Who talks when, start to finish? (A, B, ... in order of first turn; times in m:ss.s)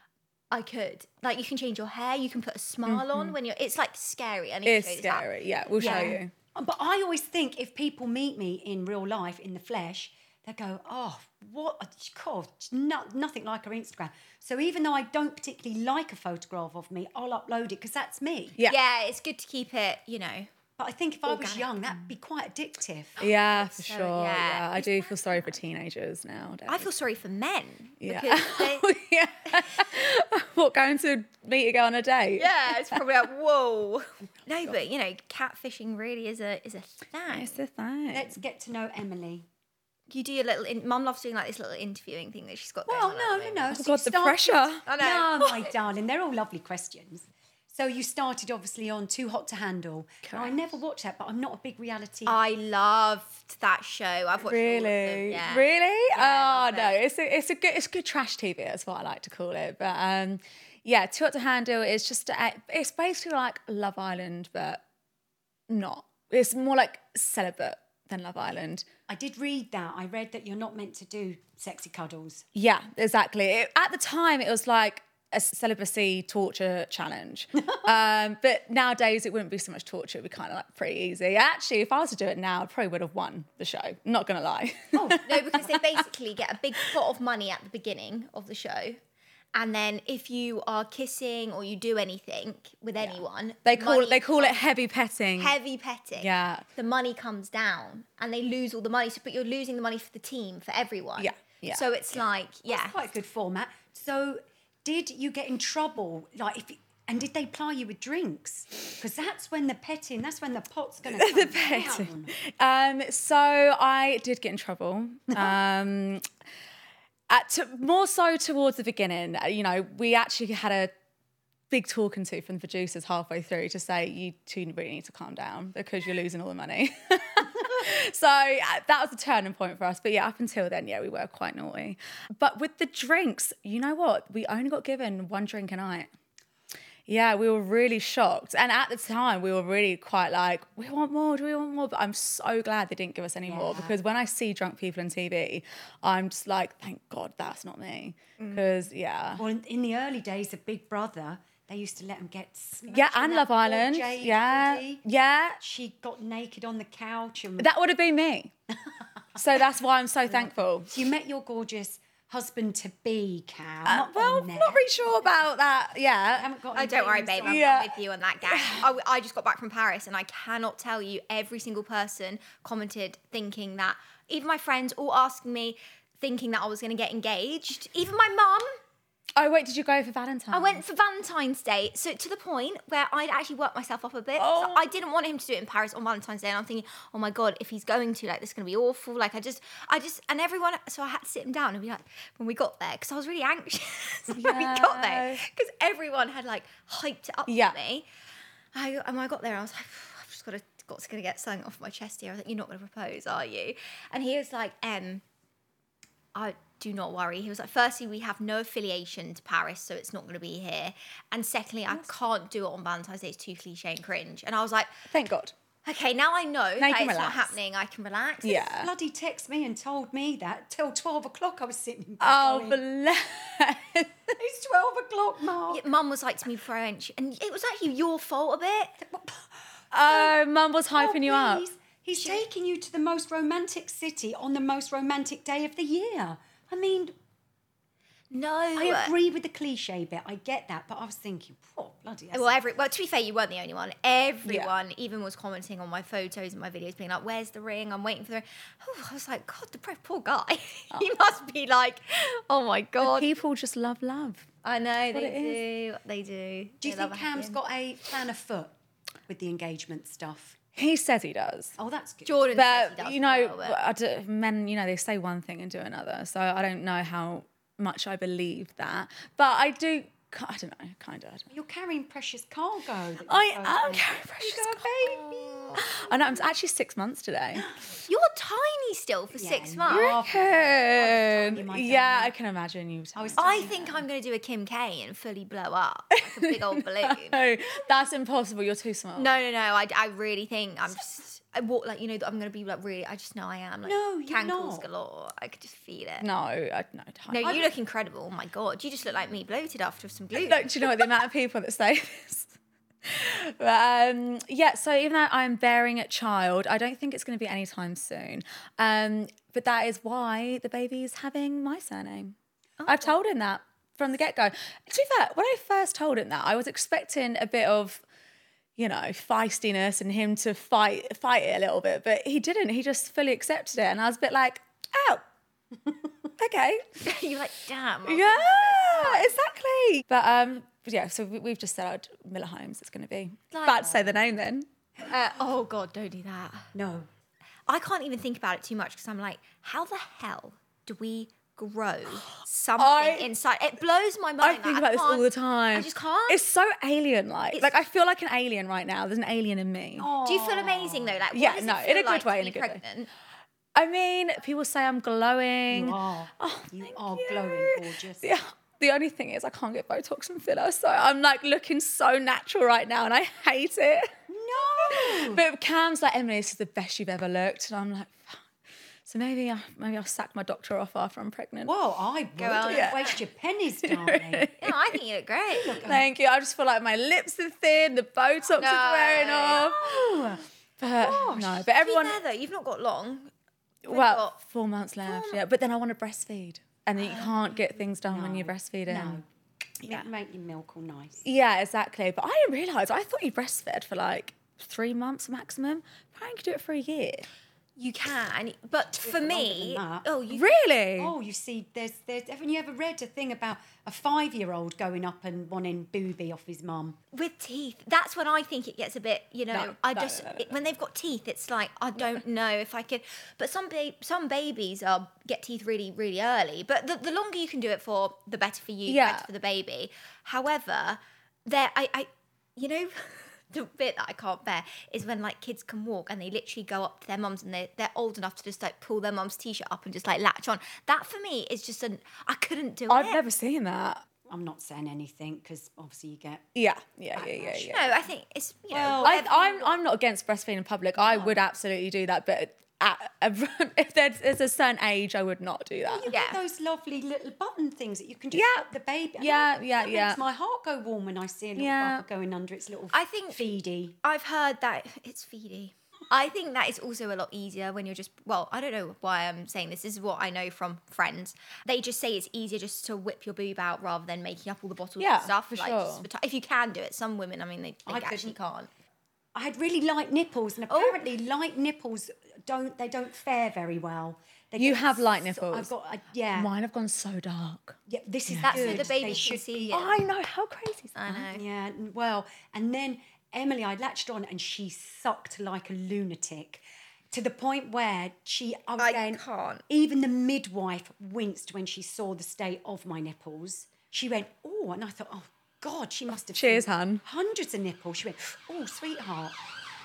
0:00.5-0:06.2 A
0:02.8-0:03.4 B
0:04.6-0:06.3 B
0:05.8-0:18.6 C
0:18.6-0:20.5 A
0:20.8-0:23.2 C
0:21.2-0:21.9 A
0:23.2-0:26.9 B
0:23.2-0:25.1 A
0:26.7-0:28.9 A
0:28.0-0:33.0 B
0:29.5-0:29.8 A
0:32.4-0:37.6 A
0:37.3-0:38.4 B
0:38.1-0:39.4 C
0:40.1-0:43.7 A
0:42.9-0:52.4 C
0:43.7-0:44.8 B
0:44.8-0:45.7 A
0:50.3-0:50.6 B
0:52.2-0:56.9 A
0:54.4-1:04.8 B
1:05.7-1:08.8 B
1:09.1-1:12.4 C
1:12.5-1:26.0 B
1:24.9-1:25.2 C
1:25.2-1:29.0 A
1:29.5-1:34.6 A
1:33.0-1:35.5 B
1:35.4-1:43.0 A
1:36.2-1:36.6 B
1:41.2-1:41.8 B
1:42.7-1:52.3 C
1:51.0-1:56.2 B
1:57.3-2:00.9 B
2:01.7-2:16.1 B
2:17.1-2:29.4 B
2:23.5-2:24.0 C
2:29.4-2:35.0 C
2:32.9-2:35.6 B
2:35.6-2:37.7 C
2:37.6-2:38.5 B
2:39.3-2:40.9 B
2:40.3-2:44.8 C
2:43.8-2:46.5 B
2:46.3-2:47.7 C
2:46.7-2:58.8 A
2:47.4-2:47.9 B
2:48.4-2:48.9 B
2:59.4-3:00.8 B
3:00.5-3:18.0 A
3:04.4-3:04.9 B
3:14.3-3:15.4 B
3:17.5-3:17.8 B
3:18.7-3:25.2 A
3:26.3-3:34.9 A
3:35.1-3:35.5 B
3:35.8-3:38.7 A
3:36.8-3:37.5 B
3:38.4-3:38.9 B
3:38.8-3:42.8 C
3:42.2-3:44.3 B
3:44.4-3:45.8 C
3:45.7-3:49.0 A
3:49.0-3:50.3 C
3:49.9-3:51.6 B
3:51.0-3:57.1 C
3:52.2-3:52.4 A
3:58.3-3:59.1 A
3:58.8-4:02.6 C
4:02.3-4:13.2 A
4:04.4-4:04.8 B
4:13.0-4:14.4 B
4:14.6-4:17.6 A
4:15.1-4:15.6 B
4:16.8-4:18.7 C
4:19.3-4:20.6 C
4:20.8-4:21.7 B
4:21.8-4:22.4 C
4:22.2-4:23.8 A
4:22.5-4:31.5 B
4:31.5-4:36.0 C
4:33.3-4:35.2 B
4:35.0-4:35.8 A
4:35.8-4:37.6 B
4:38.0-4:40.2 A
4:39.4-4:42.3 C
4:39.9-4:43.7 B
4:43.1-4:44.0 C
4:43.4-4:47.4 A
4:46.3-4:49.4 B
4:49.2-4:56.3 A
4:53.8-4:54.9 C
4:56.2-4:57.7 B
4:57.3-5:01.0 A
5:00.4-5:12.3 B
5:12.8-5:13.1 A
5:12.8-5:18.0 B
5:18.8-5:25.2 B
5:26.4-5:27.1 B
5:27.0-5:29.4 A
5:28.0-5:34.7 B
5:33.5-5:34.1 A
5:35.0-5:36.7 A
5:36.7-5:37.1 C
5:37.7-5:46.4 A
5:42.8-5:43.3 B
5:44.4-5:50.1 B
5:50.0-5:51.2 C
5:50.2-5:53.1 A
5:51.3-5:52.8 B
5:53.7-6:04.1 B
5:55.7-5:58.3 C
6:04.3-6:05.4 C
6:04.8-6:08.4 B
6:09.0-6:11.7 B
6:11.6-6:14.5 C
6:12.4-6:13.2 A
6:12.7-6:13.1 B
6:13.8-6:14.9 B
6:14.6-6:15.8 A
6:15.5-6:16.0 C
6:15.8-6:22.2 B
6:18.6-6:20.1 A
6:21.0-6:23.3 A
6:23.8-6:29.2 B
6:23.8-6:24.4 A
6:25.0-6:25.4 A
6:28.0-6:29.2 C
6:29.8-6:31.2 C
6:31.2-6:37.2 B
6:37.8-6:40.4 A
6:39.0-6:40.1 C
6:40.3-6:41.1 B
6:41.0-6:47.0 C
6:47.1-7:13.2 A
6:49.5-6:50.5 B
6:58.9-6:59.3 B
7:12.9-7:14.0 B
7:14.3-7:16.4 C
7:16.5-7:18.0 B
7:17.1-7:18.0 C
7:17.6-7:19.6 A
7:18.7-7:19.6 C
7:19.0-7:26.1 B
7:21.0-7:21.4 C
7:25.9-7:33.9 C
7:26.1-7:26.4 A
7:28.3-7:30.2 B
7:31.6-7:32.0 B
7:32.9-7:33.4 A
7:34.0-7:48.7 A
7:45.0-7:46.1 B
7:47.9-7:48.4 C
7:49.3-7:56.5 C
7:50.7-7:51.0 A
7:54.6-7:55.7 B
7:56.3-7:59.1 B
7:57.9-7:59.8 C
7:58.4-8:00.0 A
7:59.7-8:01.2 B
8:00.9-8:01.4 A
8:01.3-8:19.4 C
8:08.8-8:09.6 A
8:16.3-8:17.0 B